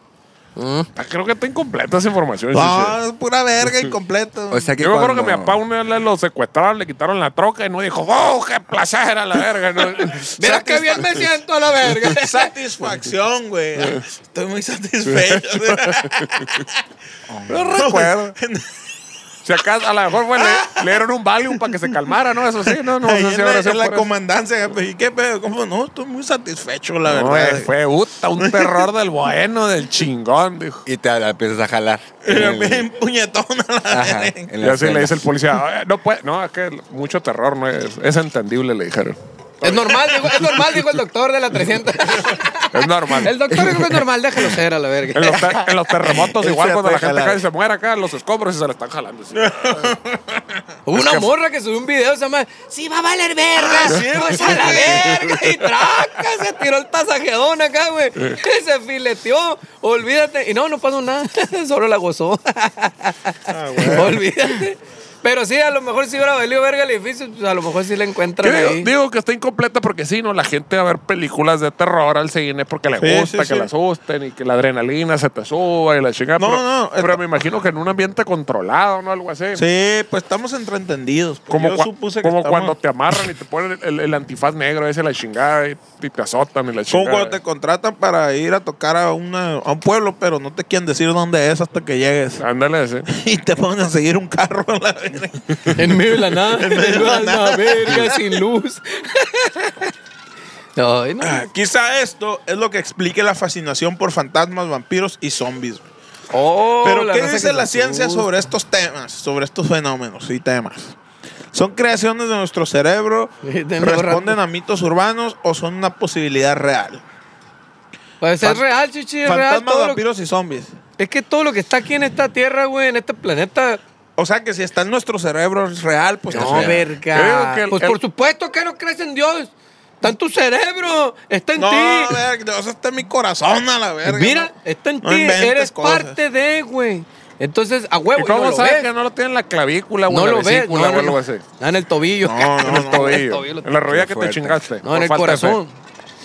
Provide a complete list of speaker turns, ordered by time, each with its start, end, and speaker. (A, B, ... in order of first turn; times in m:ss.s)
0:00.6-0:00.9 A
0:01.0-0:03.0 B
0:02.5-0:04.7 C
0:04.5-0:05.6 D
0:04.8-0:10.3 B
0:10.2-0:11.3 C
0:10.4-0:12.5 A
0:12.1-0:16.6 C
0:15.0-0:16.4 B
0:17.3-0:17.6 D
0:17.5-0:18.4 B
0:17.8-0:18.6 C
0:19.4-0:24.1 B
0:20.4-0:21.0 C
0:22.9-0:27.7 C
0:27.0-0:30.8 B
0:28.4-0:28.9 C
0:30.8-0:32.9 D
0:32.2-0:34.5 C
0:33.9-0:35.3 D
0:34.6-0:40.6 B
0:39.6-0:45.4 A
0:42.7-0:43.4 B
0:43.5-0:44.0 D
0:45.1-0:49.9 B
0:46.2-0:47.4 D
0:49.4-0:50.4 C
0:50.8-1:08.9 A
0:50.9-0:51.3 B
0:53.6-0:55.3 C
1:03.5-1:04.2 C
1:08.4-1:19.6 B
1:13.0-1:13.7 C
1:16.4-1:17.2 C
1:19.6-1:22.8 C
1:21.5-1:27.4 B
1:26.9-1:32.4 C
1:32.4-1:33.1 B
1:33.1-1:38.4 C
1:35.7-1:39.9 A
1:40.8-1:41.5 A
1:41.2-1:45.8 C
1:46.3-1:48.3 A
1:46.8-1:51.0 C
1:51.5-1:57.0 C
1:53.4-1:54.4 A
1:58.2-2:00.0 A
1:59.2-2:00.7 C
2:01.0-2:03.8 A
2:04.2-2:06.8 C
2:06.3-2:12.2 A
2:06.3-2:08.0 B
2:11.6-2:14.5 C
2:14.0-2:18.9 A
2:15.0-2:16.2 C
2:18.2-2:21.4 B
2:20.1-2:23.7 A
2:22.2-2:23.2 C
2:22.6-2:25.6 B
2:23.9-2:24.6 D
2:24.8-2:25.7 A